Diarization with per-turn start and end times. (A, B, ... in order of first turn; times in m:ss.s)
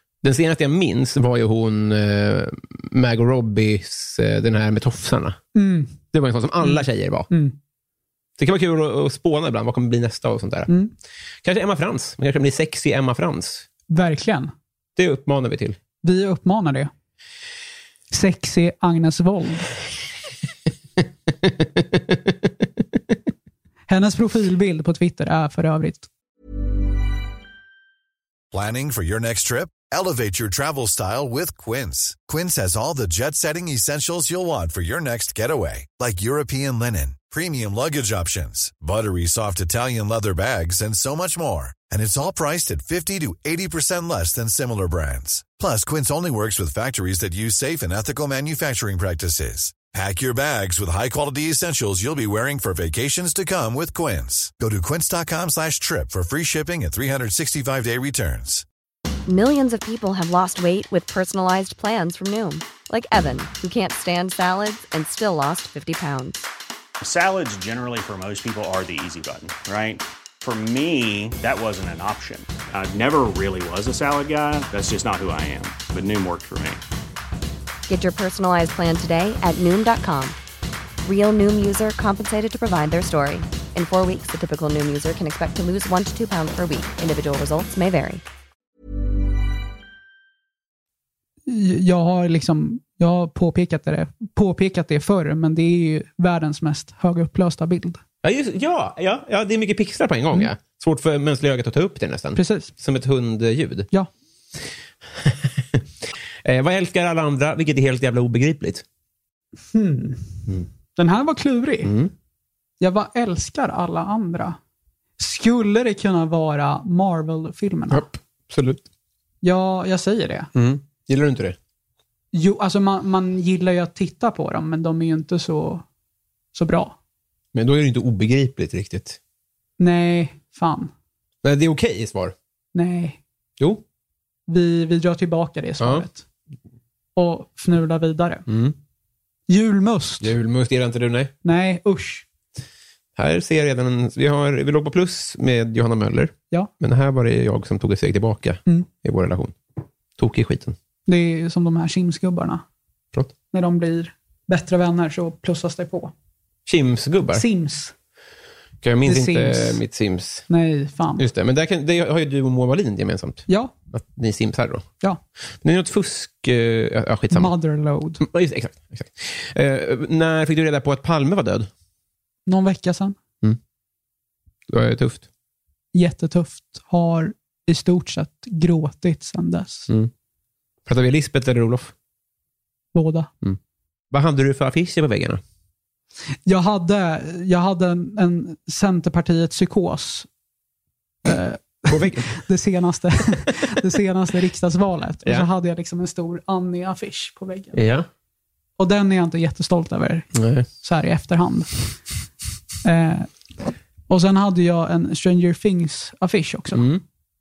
0:00.2-0:05.4 A
0:05.6-0:06.0 B
0:06.1-0:07.3 A
0:06.6-0:07.6 B
0:08.4-0:10.7 A
0:11.4-0:13.7 A
0:13.9-0:14.5 B
0:15.0-0:15.8 A
0:16.0-0:16.9 B
0:18.1-0:19.7 B
0:21.4-0:22.2 A
0:23.9-0:26.1 B
0:28.5-0:58.6 C
0:59.3-1:06.5 D
1:07.0-1:16.8 E
1:17.9-1:20.4 D
1:21.0-1:28.2 D
1:31.5-1:38.0 B
1:38.2-1:43.9 A
1:42.4-1:42.7 B
1:45.2-1:45.8 A
1:46.4-1:48.8 A
1:49.7-1:50.4 B
1:51.0-1:51.9 B
1:51.8-1:52.1 A
1:52.8-1:54.6 B
1:55.2-1:58.1 B
1:57.9-1:58.8 A
1:59.4-2:00.5 B
2:00.6-2:01.6 A
2:02.3-2:05.8 B
2:06.5-2:07.0 B
2:07.5-2:09.2 A
2:09.8-2:10.9 B
2:11.4-2:12.4 A
2:12.7-2:13.2 B
2:14.5-2:16.2 B
2:15.8-2:16.1 A
2:17.2-2:18.4 B
2:18.5-2:18.8 A
2:19.5-2:20.3 B
2:20.2-2:21.3 A
2:21.4-2:22.2 B
2:23.2-2:29.6 A
2:30.2-2:30.8 A
2:31.1-2:32.6 B
2:33.5-2:36.1 B
2:36.6-2:37.4 A
2:37.3-2:37.9 B
2:38.8-2:40.5 A
2:39.0-2:39.8 B
2:40.5-2:41.2 B
2:41.2-2:44.9 A
2:43.5-2:43.7 B
2:45.6-2:47.5 A
2:47.3-2:48.2 B
2:48.2-2:51.7 A
2:52.4-2:53.2 B
2:54.7-2:55.2 A
2:55.9-2:59.9 B
3:00.9-3:01.9 A
3:02.9-3:03.3 B
3:04.1-3:05.4 A
3:06.4-3:10.3 B
3:11.2-3:17.8 B
3:11.9-3:12.4 A
3:17.7-3:18.1 A
3:18.8-3:21.9 B
3:20.4-3:20.7 A
3:22.8-3:23.3 B
3:24.1-3:26.9 B
3:26.7-3:27.0 A